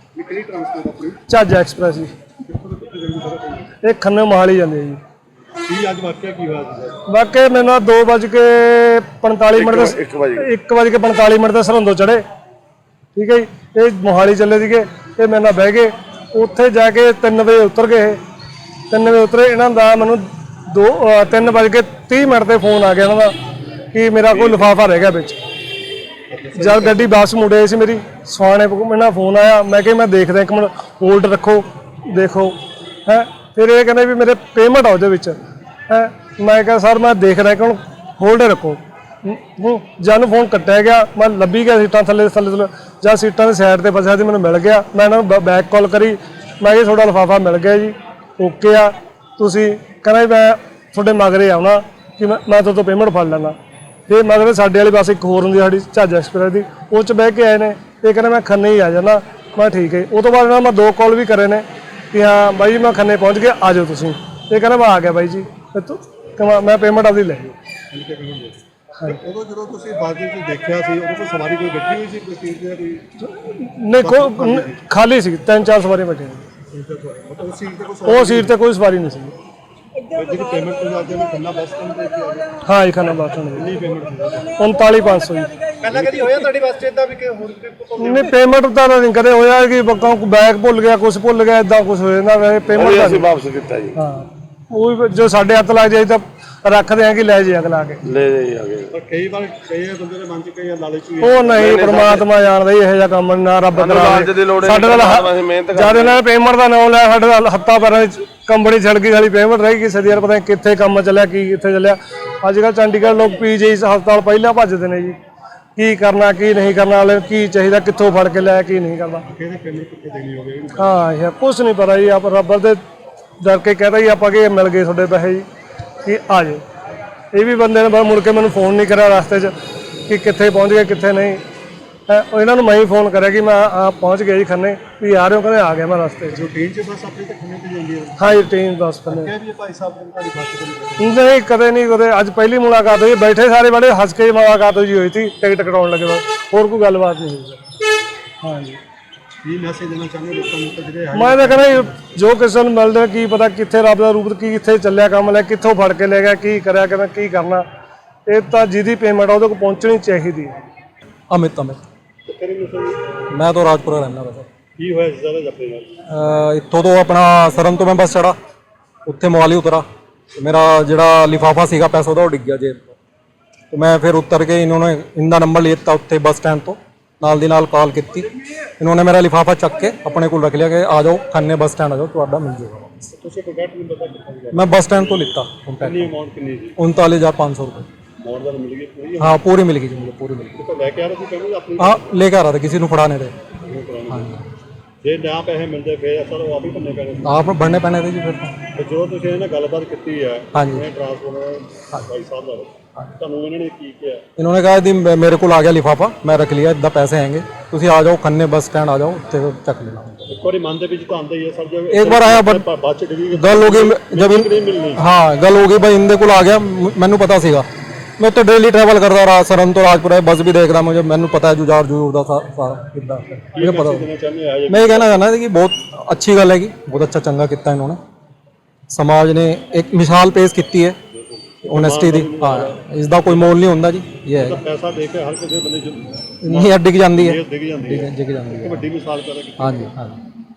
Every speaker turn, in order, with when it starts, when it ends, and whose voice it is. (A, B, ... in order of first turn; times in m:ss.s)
0:00.2-0:01.2 A
0:01.3-0:02.1 B
0:02.4-0:03.7 A
0:03.8-0:05.0 B
0:05.6-0:07.0 A
0:07.1-0:12.2 B
0:09.6-0:10.5 C
0:13.2-0:18.2 B
0:18.9-0:23.4 B
0:23.9-0:25.4 B
0:24.3-0:24.7 A
0:26.3-0:27.2 A
0:26.6-0:53.6 B
0:54.1-1:07.6 B
1:07.9-1:13.0 A
1:13.2-1:16.5 B
1:14.0-1:14.8 A
1:16.7-1:18.5 A
1:18.1-1:19.3 B
1:20.1-1:22.5 A
1:22.6-1:23.7 B
1:23.5-1:24.6 A
1:24.6-1:25.5 B
1:25.8-1:28.3 A
1:28.0-1:33.3 B
1:32.7-1:34.0 C
1:34.0-1:38.0 B
1:38.1-1:38.9 C
1:38.9-1:42.2 A
1:41.2-1:55.2 B
1:43.8-1:46.2 C
1:55.8-1:59.2 B
1:59.2-2:01.0 A
2:00.8-2:02.8 B
2:03.4-2:05.4 B
2:06.0-2:06.6 B
2:07.3-2:09.5 B
2:10.1-2:11.4 B
2:12.1-2:16.4 B
2:16.3-2:18.5 A
2:18.2-2:19.3 B
2:19.1-2:21.2 A
2:21.0-2:27.7 B
2:28.4-2:28.8 B
2:29.4-2:32.0 A
2:31.1-2:37.7 B
2:38.3-2:40.6 B
2:41.3-2:41.8 D
2:42.3-2:43.2 A
2:43.3-2:44.5 D
2:44.8-2:45.9 A
2:46.1-2:48.4 D
2:49.1-2:53.0 D
2:53.7-3:03.2 D
3:03.2-3:06.8 A
3:04.5-3:06.1 D
3:06.8-3:07.9 D
3:08.2-3:09.4 A
3:09.2-3:10.6 D
3:10.6-3:12.1 A
3:11.8-3:13.3 D
3:13.6-3:14.4 A
3:14.1-3:14.4 D
3:15.0-3:17.5 A
3:17.2-3:18.6 D
3:18.8-3:24.2 A
3:20.5-3:20.9 D
3:24.4-3:30.3 D
3:30.3-3:35.0 A
3:31.9-3:32.6 D
3:33.3-3:37.7 D
3:38.2-3:44.1 D
3:43.6-3:45.3 A
3:44.7-3:48.0 D
3:48.9-3:51.0 D
3:51.6-3:53.5 A
3:51.6-3:54.6 D
3:54.4-3:59.9 A
3:56.4-3:58.9 D
3:59.6-4:00.2 D